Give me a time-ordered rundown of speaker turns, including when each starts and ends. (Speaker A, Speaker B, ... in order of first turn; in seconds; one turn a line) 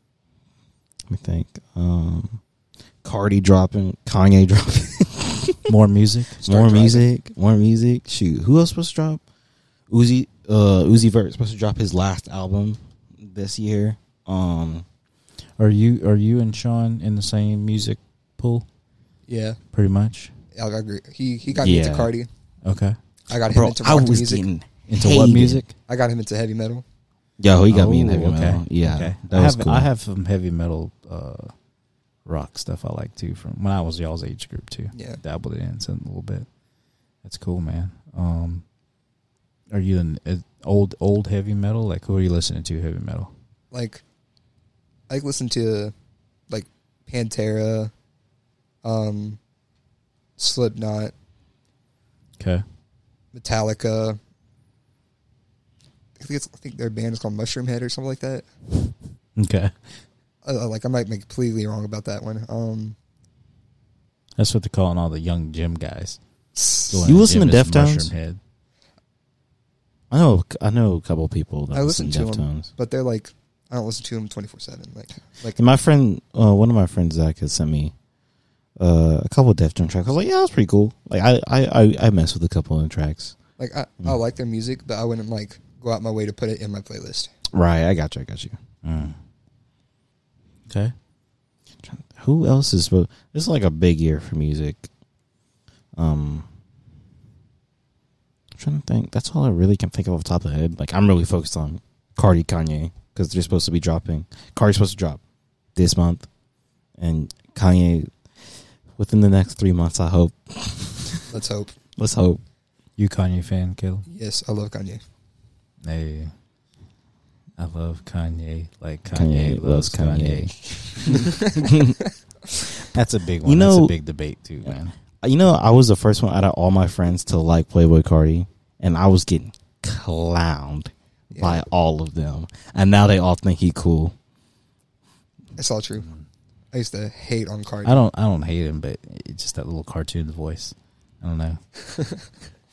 Speaker A: 1.1-2.4
Speaker A: 3.0-5.7
Speaker B: 5.7-6.4
Speaker C: 6.4-7.1
Speaker A: 6.4-9.2
Speaker A: 9.9-14.8
Speaker B: 15.6-18.7
Speaker C: 19.3-19.6
Speaker B: 19.7-20.3
Speaker C: 20.5-22.3
Speaker A: 21.6-22.1
Speaker B: 22.6-23.0
Speaker C: 23.3-24.4
Speaker A: 23.3-25.6
Speaker B: 24.9-25.7
Speaker C: 25.9-26.8
Speaker A: 27.4-29.9
Speaker B: 27.7-31.5
Speaker B: 32.2-36.5
Speaker C: 34.9-35.2
Speaker B: 37.2-38.6
Speaker B: 39.7-43.3
Speaker C: 43.7-44.0
Speaker C: 45.1-45.9
Speaker C: 46.5-47.9
Speaker C: 48.8-49.4
Speaker C: 50.4-51.1
Speaker B: 52.4-52.6
Speaker C: 53.3-54.2
Speaker C: 56.2-58.5
Speaker B: 59.4-59.7
Speaker C: 60.4-63.0
Speaker B: 64.4-66.2
Speaker C: 66.5-67.0
Speaker B: 66.9-68.4
Speaker A: 67.0-68.1
Speaker A: 70.1-72.7
Speaker C: 71.7-75.6
Speaker A: 75.5-77.9
Speaker A: 78.8-83.3
Speaker C: 83.6-87.3
Speaker A: 87.5-88.6
Speaker B: 88.8-89.2
Speaker B: 90.7-90.9
Speaker A: 91.8-94.9
Speaker A: 95.9-96.5
Speaker A: 98.5-105.2
Speaker A: 105.8-106.3
Speaker A: 107.0-108.1
Speaker A: 109.0-111.3
Speaker C: 111.3-111.7
Speaker A: 112.0-112.4
Speaker B: 113.0-114.0
Speaker C: 114.1-115.0
Speaker B: 115.8-116.3
Speaker B: 117.6-120.5
Speaker A: 119.1-122.0
Speaker C: 121.0-122.1
Speaker B: 122.9-124.9
Speaker A: 123.4-123.9
Speaker A: 124.6-134.1
Speaker C: 131.3-131.6
Speaker C: 135.6-136.1
Speaker C: 136.7-138.0
Speaker B: 137.8-141.6